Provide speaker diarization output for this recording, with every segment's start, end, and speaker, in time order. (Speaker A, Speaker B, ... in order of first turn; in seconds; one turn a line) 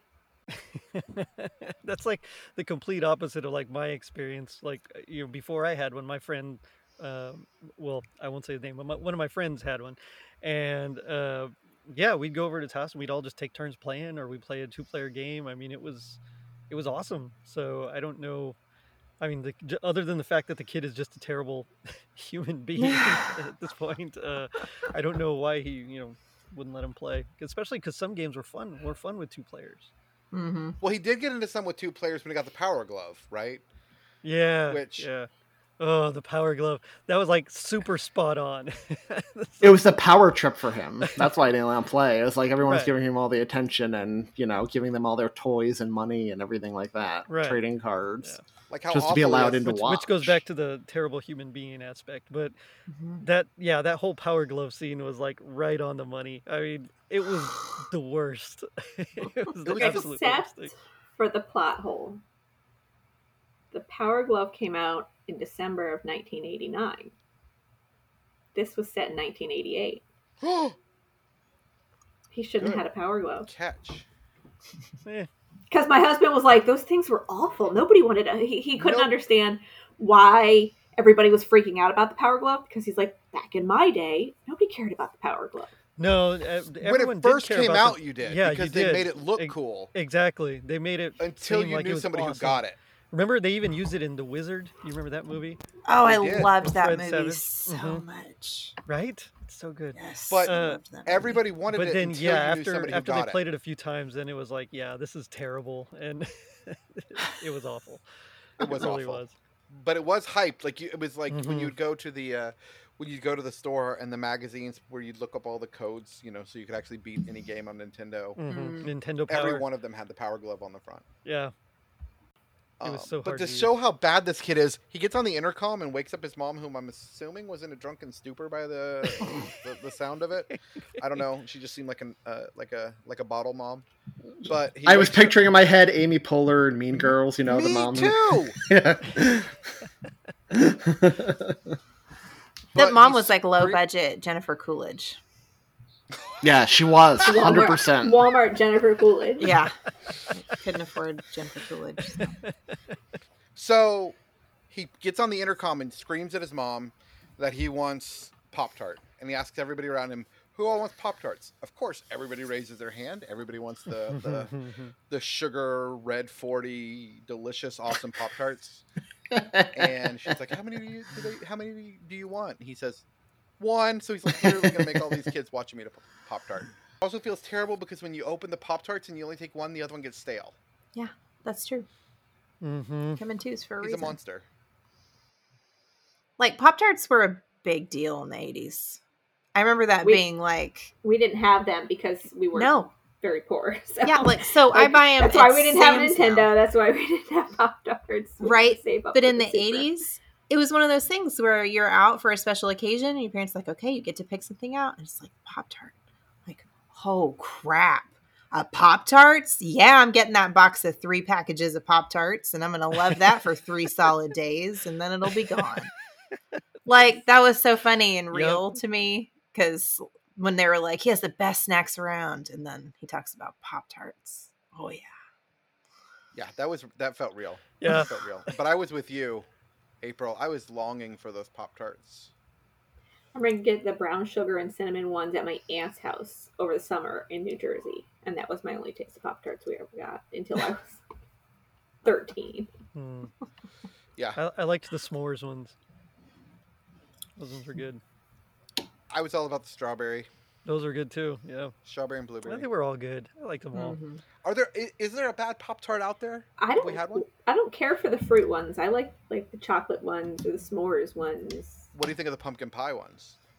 Speaker A: 0.5-18.6
Speaker A: 19.2-29.9
Speaker B: 22.8-23.4
Speaker B: 30.3-30.8
Speaker C: 30.8-33.6
Speaker A: 34.2-35.3
Speaker C: 34.7-35.1
Speaker A: 35.8-39.8
Speaker D: 39.6-48.4
Speaker A: 42.6-42.9
Speaker A: 47.3-47.6
Speaker C: 48.7-49.9
Speaker D: 48.9-50.3
Speaker A: 49.6-52.6
Speaker B: 52.9-53.2
Speaker A: 53.2-60.7
Speaker C: 59.7-60.1
Speaker E: 59.8-62.2
Speaker E: 63.7-67.1
Speaker E: 68.5-70.0
Speaker C: 70.4-70.8
Speaker E: 72.3-73.5
Speaker C: 72.6-72.8
Speaker C: 73.4-74.0
Speaker E: 75.7-85.7
Speaker C: 78.8-79.1
Speaker A: 86.0-95.6
Speaker C: 86.8-89.9
Speaker C: 91.2-92.8
Speaker B: 95.8-98.8
Speaker C: 96.0-96.5
Speaker A: 96.6-98.0
Speaker A: 98.9-100.9
Speaker B: 100.0-101.4
Speaker C: 100.3-103.4
Speaker A: 101.7-108.0
Speaker A: 108.6-109.3
Speaker C: 108.7-118.4
Speaker A: 111.3-111.8
Speaker A: 118.4-119.7
Speaker B: 118.5-118.9
Speaker C: 119.3-121.0
Speaker A: 121.2-121.5
Speaker C: 122.8-133.9
Speaker A: 122.8-123.7
Speaker A: 130.5-130.9
Speaker C: 134.4-135.4
Speaker D: 134.8-139.5
Speaker C: 137.5-138.6
Speaker D: 140.5-141.8
Speaker C: 142.7-143.8
Speaker B: 142.8-145.2
Speaker D: 146.4-148.2
Speaker E: 147.2-149.5
Speaker B: 149.4-149.7
Speaker B: 150.3-152.3
Speaker A: 152.1-152.5
Speaker C: 153.6-154.2
Speaker C: 154.7-164.5
Speaker A: 164.1-164.9
Speaker C: 165.1-168.8
Speaker D: 169.3-170.3
Speaker C: 169.7-173.0
Speaker C: 173.6-180.6
Speaker D: 174.4-175.2
Speaker B: 180.9-181.9
Speaker A: 182.6-183.2
Speaker B: 183.2-184.2
Speaker C: 183.8-184.4
Speaker B: 186.4-189.0
Speaker B: 189.6-190.9
Speaker E: 191.0-199.9
Speaker B: 192.5-192.9
Speaker B: 194.1-196.5
Speaker B: 198.4-205.9
Speaker B: 206.5-215.9
Speaker B: 216.9-225.1
Speaker A: 218.3-218.6
Speaker C: 226.3-229.5
Speaker A: 227.8-228.2
Speaker C: 230.0-232.3
Speaker E: 233.3-241.0
Speaker E: 242.0-242.7
Speaker A: 242.9-243.3
Speaker A: 244.3-245.8
Speaker A: 247.4-248.0
Speaker C: 249.1-250.3
Speaker A: 250.7-251.8
Speaker C: 251.9-252.7
Speaker A: 252.4-254.0
Speaker B: 253.7-254.2
Speaker C: 254.4-257.3
Speaker E: 256.6-261.8
Speaker C: 261.9-263.4